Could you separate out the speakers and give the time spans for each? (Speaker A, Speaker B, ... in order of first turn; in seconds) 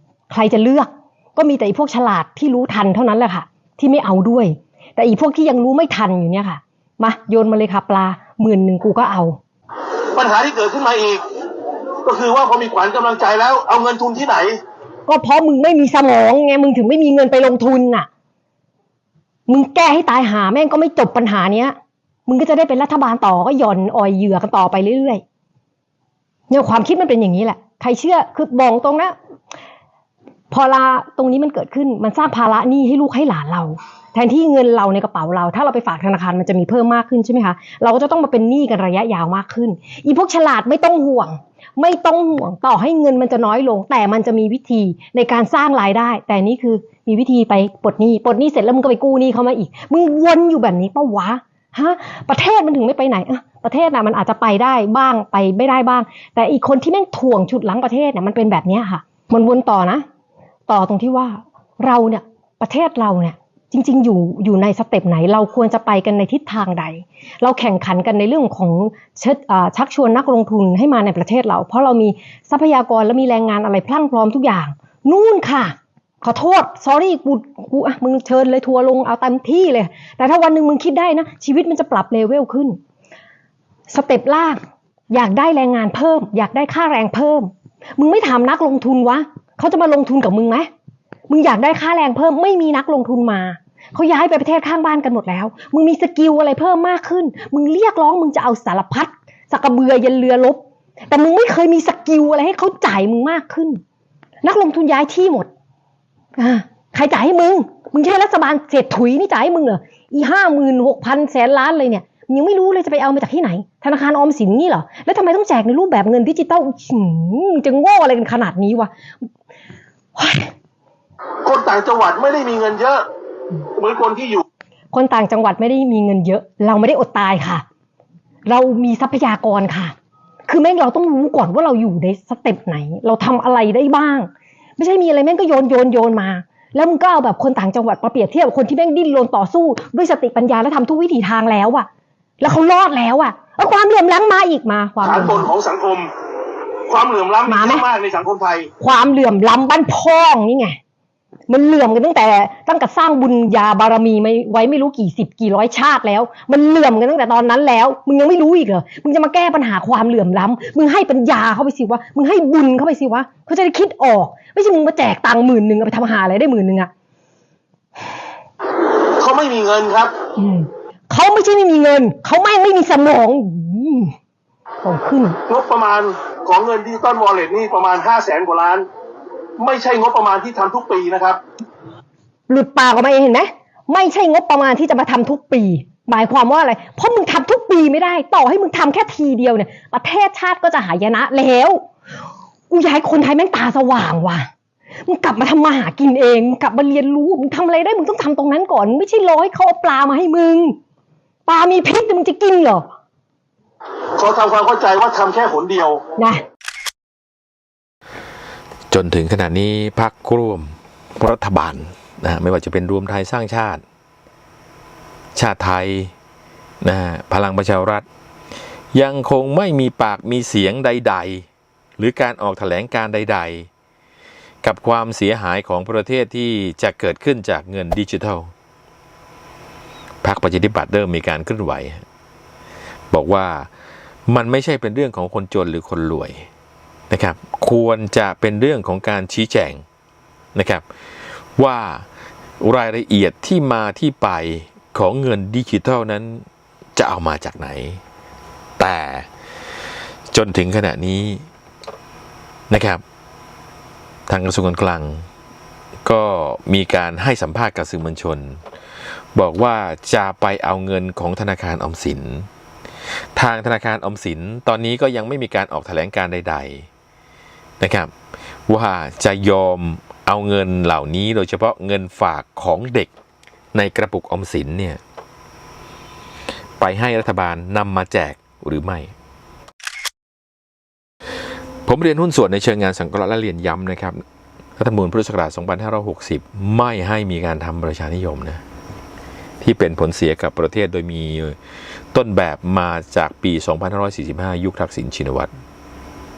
Speaker A: 0.3-9.4, 15.1-18.1, 19.5-21.8, 22.3-25.2, 26.5-29.1, 30.5-60.0, 60.7-82.8, 83.9-90.7, 91.3-103.8, 104.4-105.5, 106.4-118.9, 120.2-120.5, 124.9-127.6, 128.4-129.9, 130.5-141.9, 142.4-145.5, 147.4-147.8, 148.8-150.8, 151.5-166.9, 170.4-174.1, 174.8-175.4, 182.5-191.9, 192.7-194.5, 195.1-200.8, 201.5-202.9, 206.2-206.4
Speaker B: 10.1-11.2, 12.0-14.6, 121.4-123.0, 123.8-124.4, 145.0-146.1, 146.9-148.7, 169.2-170.1, 175.5-178.8, 179.6-181.4, 204.2-206.0
Speaker C: 208.9-213.8, 215.3-216.1, 216.8-218.1, 218.9-221.4, 222.0-223.7, 224.6-228.5, 230.2-232.0, 233.1-233.7, 234.3-236.5, 237.1-239.8, 240.5-242.1, 242.6-248.0, 248.8-249.3, 250.3-251.5, 252.7-253.0, 254.3-255.3, 256.0-258.6, 259.3-262.5, 263.4-266.9, 267.8-268.1, 268.7-273.1, 273.7-275.0, 276.8-279.1, 281.8-284.2, 284.8-288.6, 289.6-291.6, 292.1-295.5